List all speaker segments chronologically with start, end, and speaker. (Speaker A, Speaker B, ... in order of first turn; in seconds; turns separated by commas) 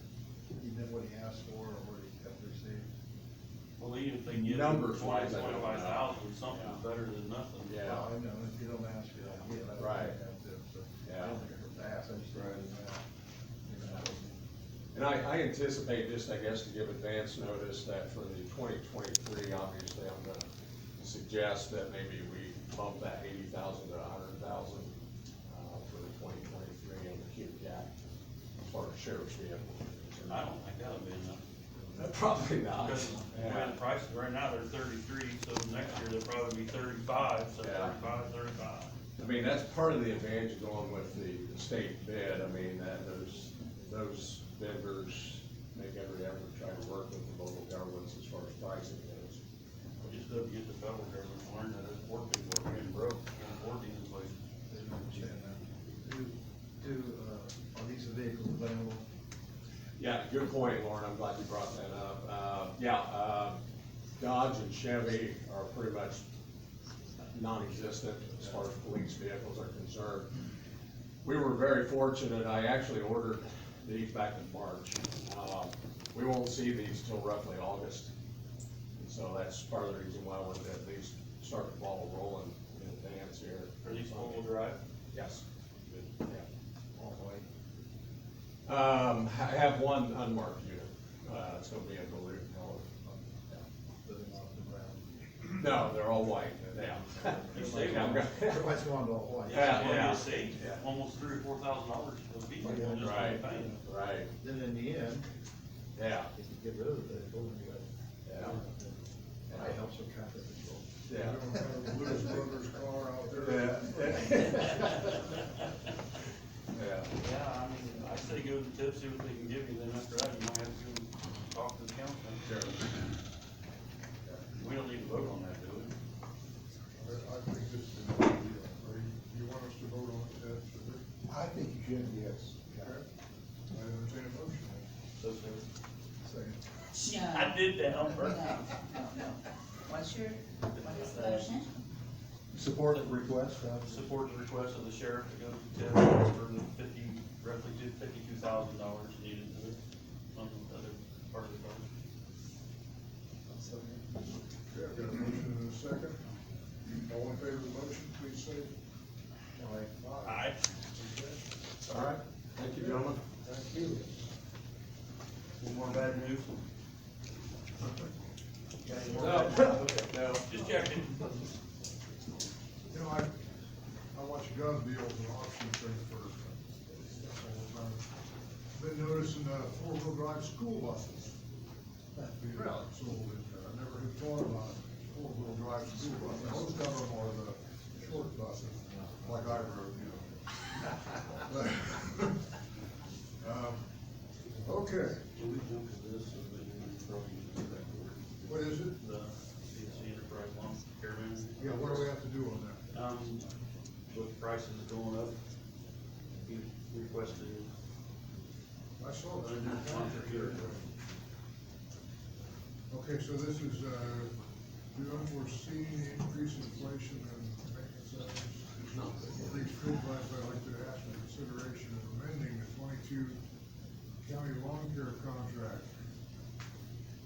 Speaker A: 0.6-2.9, Speaker B: 3.8-7.7, Speaker C: 4.3-6.8, Speaker C: 7.6-8.1, Speaker A: 7.8-13.0, Speaker C: 9.8-10.2, Speaker C: 11.0-11.4, Speaker C: 12.4-12.6, Speaker A: 13.7-14.4, Speaker C: 14.9-20.4, Speaker C: 21.0-24.9, Speaker C: 25.4-27.9, Speaker C: 28.6-30.5, Speaker B: 30.3-31.4, Speaker C: 31.9-33.8, Speaker B: 32.8-38.9, Speaker C: 37.6-37.9, Speaker C: 39.2-49.4, Speaker B: 50.0-54.4, Speaker A: 54.7-59.0, Speaker C: 60.0-63.6, Speaker C: 64.2-66.2, Speaker C: 67.3-70.3, Speaker C: 71.2-78.1, Speaker C: 79.0-84.4, Speaker B: 83.8-84.8, Speaker C: 85.1-86.5, Speaker A: 87.0-87.5, Speaker C: 88.7-92.9, Speaker A: 94.0-95.1, Speaker C: 95.6-98.7, Speaker A: 96.8-100.2, Speaker B: 97.5-98.3, Speaker B: 99.5-103.8, Speaker C: 99.5-100.8, Speaker A: 102.6-103.8, Speaker C: 102.8-104.3, Speaker A: 104.4-105.3, Speaker C: 106.0-106.3, Speaker A: 106.3-110.9, Speaker C: 108.3-108.6, Speaker C: 109.5-109.8, Speaker C: 111.1-111.5, Speaker D: 111.1-114.5, Speaker C: 113.4-115.3, Speaker C: 116.7-117.1, Speaker B: 117.2-122.5, Speaker C: 122.5-122.8, Speaker B: 124.5-125.9, Speaker D: 127.0-131.1, Speaker A: 131.3-133.0, Speaker D: 132.8-133.1, Speaker D: 133.7-134.8, Speaker B: 135.2-135.7, Speaker A: 136.2-136.6, Speaker E: 136.9-141.7, Speaker B: 137.0-138.8, Speaker B: 140.8-141.5, Speaker A: 142.5-144.1, Speaker B: 142.9-149.8, Speaker B: 150.3-151.8, Speaker A: 153.5-154.1, Speaker D: 154.7-156.2, Speaker D: 157.1-158.7, Speaker A: 159.6-159.9, Speaker D: 160.0-161.4, Speaker B: 160.2-160.6, Speaker C: 161.8-163.2, Speaker D: 162.8-163.1, Speaker A: 163.4-164.2, Speaker B: 165.6-166.6, Speaker B: 168.8-169.8, Speaker C: 169.1-170.5, Speaker B: 170.4-171.3, Speaker D: 172.9-173.4, Speaker D: 174.1-178.1, Speaker D: 178.8-181.3, Speaker D: 182.2-192.5, Speaker A: 182.6-182.8, Speaker D: 193.4-193.9, Speaker D: 194.6-195.2, Speaker B: 195.3-202.1, Speaker D: 198.5-199.0, Speaker D: 201.6-202.9, Speaker B: 202.9-203.4, Speaker B: 204.1-205.4, Speaker B: 206.4-207.7, Speaker D: 209.0-210.9, Speaker B: 209.4-210.7, Speaker D: 212.9-214.3, Speaker D: 214.9-223.4, Speaker D: 224.2-226.0